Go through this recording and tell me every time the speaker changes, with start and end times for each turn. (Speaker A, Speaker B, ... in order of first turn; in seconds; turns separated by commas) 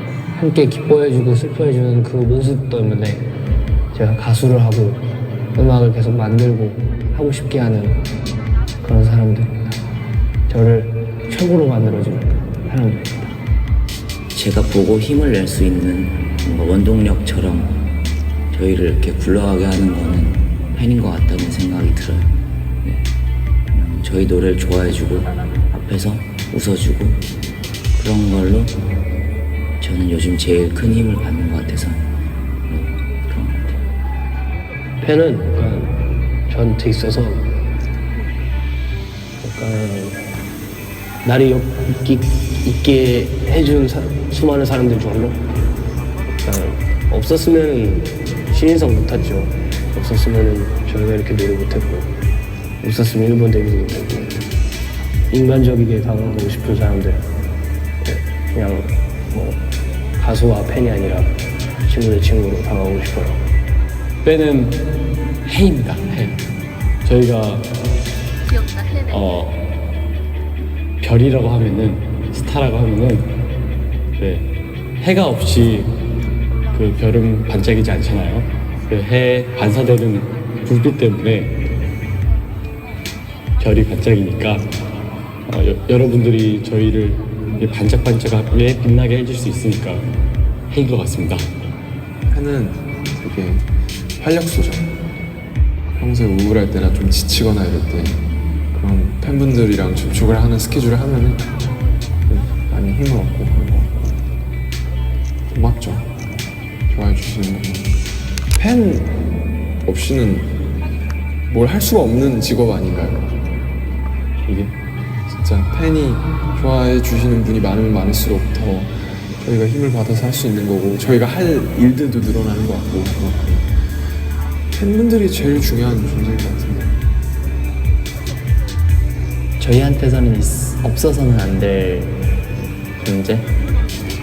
Speaker A: 0.3-3.2, Speaker A: 3.9-5.0, Speaker A: 5.5-8.0, Speaker A: 8.8-9.8, Speaker A: 10.5-13.3, Speaker B: 14.3-17.8, Speaker B: 18.5-23.0, Speaker B: 23.7-27.2, Speaker B: 27.9-28.8, Speaker B: 29.8-32.1, Speaker B: 32.7-33.8, Speaker A: 35.0-37.5, Speaker A: 39.4-40.2, Speaker A: 41.2-45.4, Speaker A: 46.4-52.1, Speaker A: 52.8-54.4, Speaker A: 55.3-57.2, Speaker A: 58.0-59.6, Speaker A: 60.2-61.3, Speaker A: 61.9-63.4, Speaker C: 64.2-64.8, Speaker C: 65.4-66.4, Speaker C: 67.0-67.7, Speaker C: 69.1-69.6, Speaker C: 71.0-73.3, Speaker C: 74.2-74.5, Speaker C: 75.0-76.0, Speaker C: 76.7-81.6, Speaker C: 83.6-84.7, Speaker C: 85.5-90.1, Speaker C: 90.7-91.5, Speaker D: 92.3-94.9, Speaker D: 95.9-104.2, Speaker D: 105.5-106.1, Speaker D: 106.9-107.9, Speaker D: 108.5-109.1, Speaker D: 109.8-110.5, Speaker D: 111.5-113.3, Speaker D: 114.5-114.7, Speaker D: 115.3-123.7, Speaker D: 124.7-127.0, Speaker E: 129.6-132.2, Speaker E: 133.0-133.5